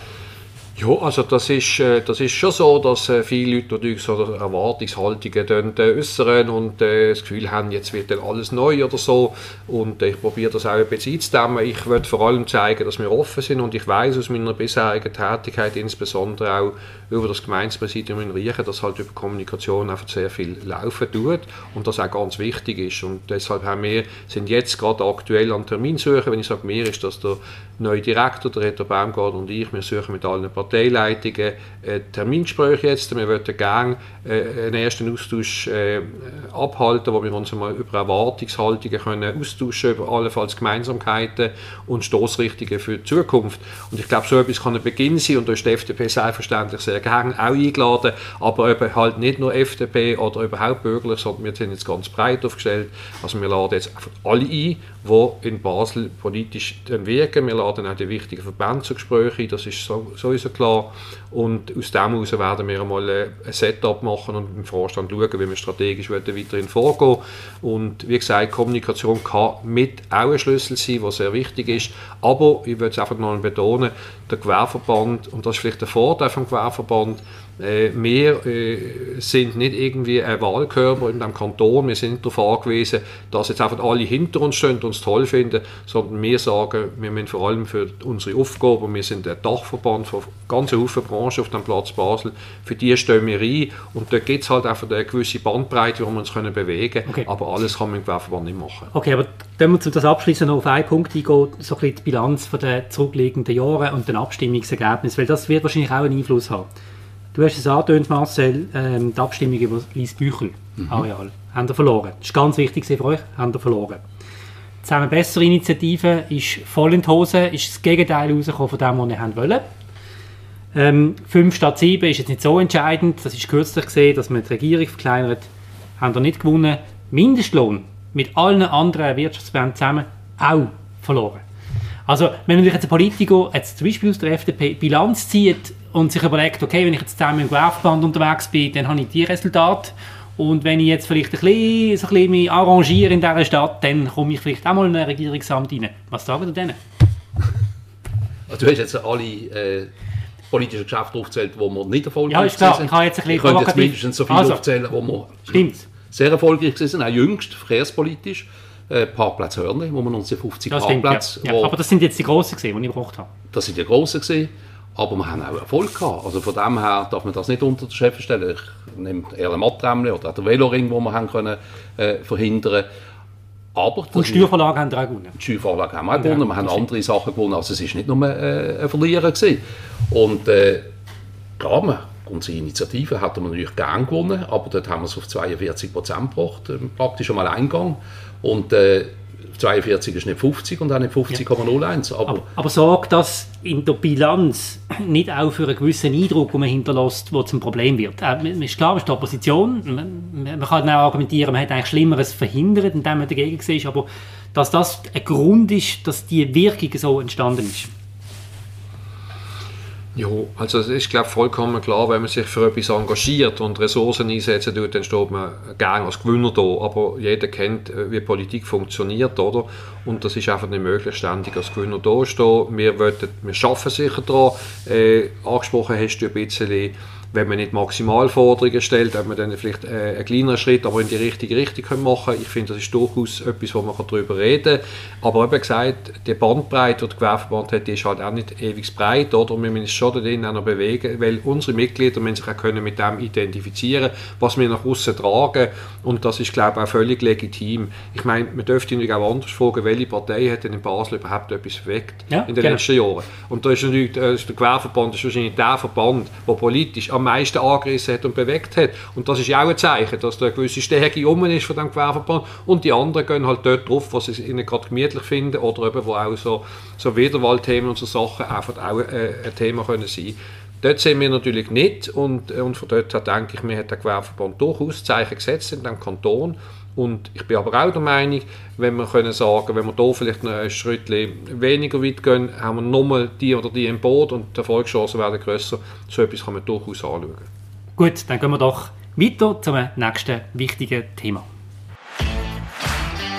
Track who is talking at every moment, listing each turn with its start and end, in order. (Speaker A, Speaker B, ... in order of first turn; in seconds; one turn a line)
Speaker A: 0.8-98.9
Speaker B: 98.9-106.7
Speaker B: 107.3-114.0
Speaker B: 114.8-119.6
Speaker B: 120.7-131.4
Speaker B: 132.1-146.8
Speaker C: 148.5-149.9
Speaker C: 150.5-161.7
Speaker B: 152.3-154.6
Speaker B: 155.4-155.9
Speaker B: 160.7-163.3
Speaker C: 163.5-172.9
Speaker C: 173.7-174.5
Speaker B: 174.1-175.3
Speaker C: 175.3-180.9
Speaker B: 176.2-176.8
Speaker C: 181.6-192.4
Speaker B: 192.3-207.9
Speaker A: 210.2-287.5
Speaker B: 252.3-252.8
Speaker B: 288.0-291.5